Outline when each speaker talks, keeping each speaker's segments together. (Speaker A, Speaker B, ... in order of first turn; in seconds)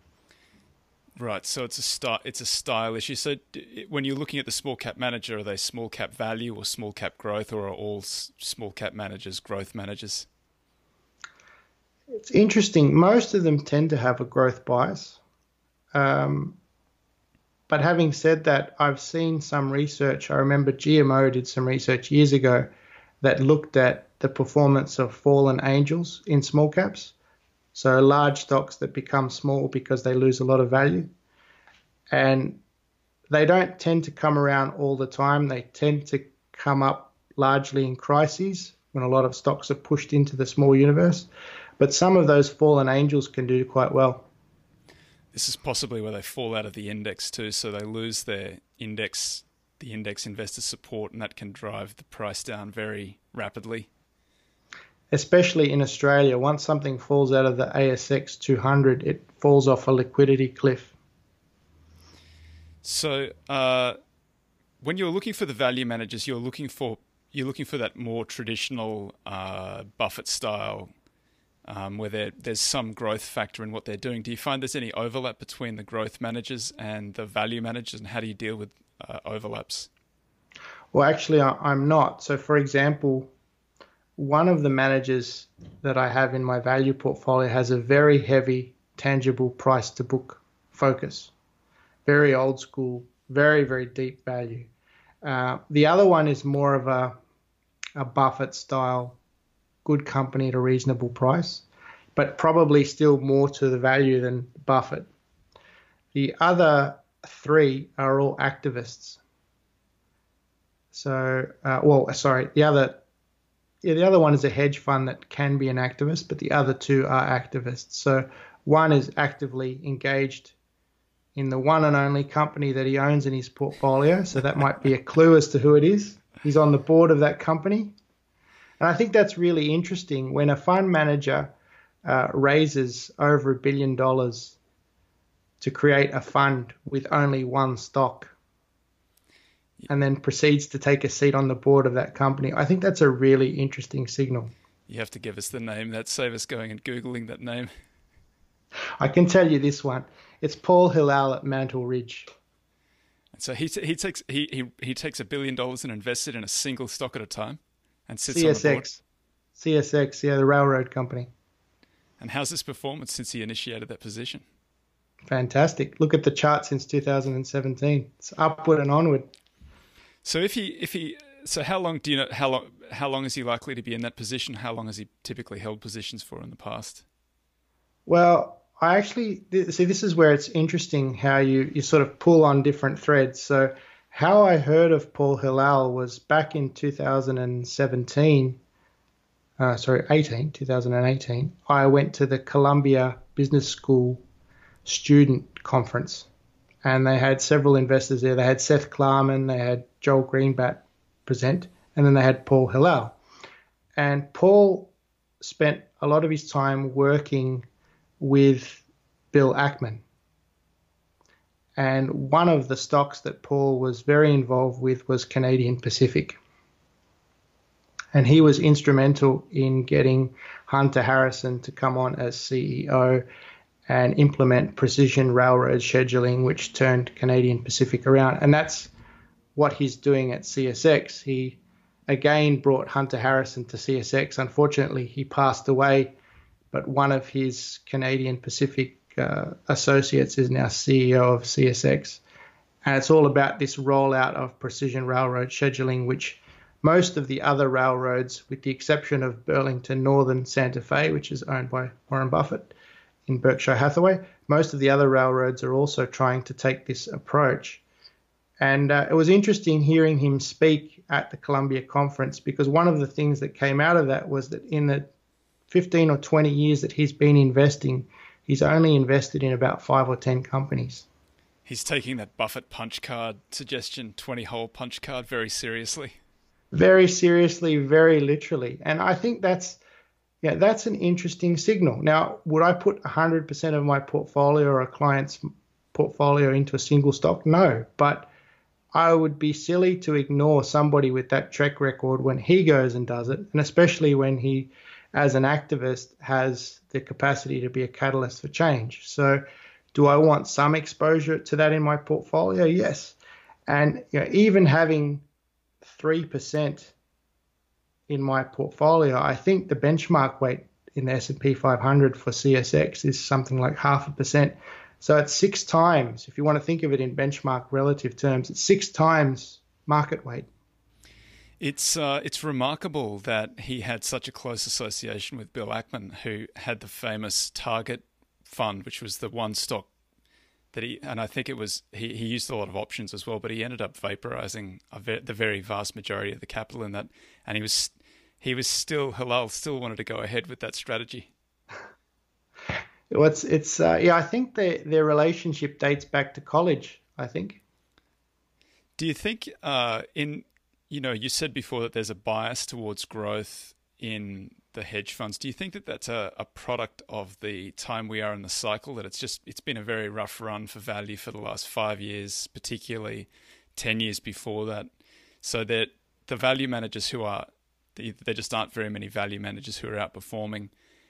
Speaker A: 1.2-10.3, 45.3-53.9, 62.8-64.0, 64.8-70.9, 71.7-79.9, 144.9-147.7, 153.3-158.8, 162.2-164.4, 170.2-177.0, 271.7-276.2, 321.6-329.9, 330.7-341.3, 349.0-364.9, 365.4-370.7
Speaker B: 12.2-15.2, 15.9-16.6, 17.7-22.7, 23.2-27.1, 27.7-31.1, 32.1-32.6, 33.3-44.3, 55.1-60.9, 80.9-83.3, 84.2-91.3, 92.1-94.7, 95.2-97.2, 98.0-99.2, 99.8-105.1, 106.1-109.2, 110.9-113.0, 113.8-120.5, 121.3-127.9, 128.8-131.5, 132.1-134.6, 135.6-138.3, 139.9-144.5, 149.0-152.3, 158.3-159.0, 159.6-161.3, 165.3-169.3, 178.1-188.6, 189.6-194.2, 194.8-196.3, 196.8-203.2, 204.0-207.7, 208.2-210.0, 211.8-216.4, 218.1-223.2, 223.9-228.9, 229.6-236.2, 236.7-242.2, 242.8-252.7, 253.3-257.8, 258.6-265.1, 265.7-271.1, 276.7-279.8, 280.4-285.4, 285.9-288.3, 288.9-299.4, 299.9-303.2, 303.7-305.2, 305.8-306.9, 308.1-320.5, 343.1-347.6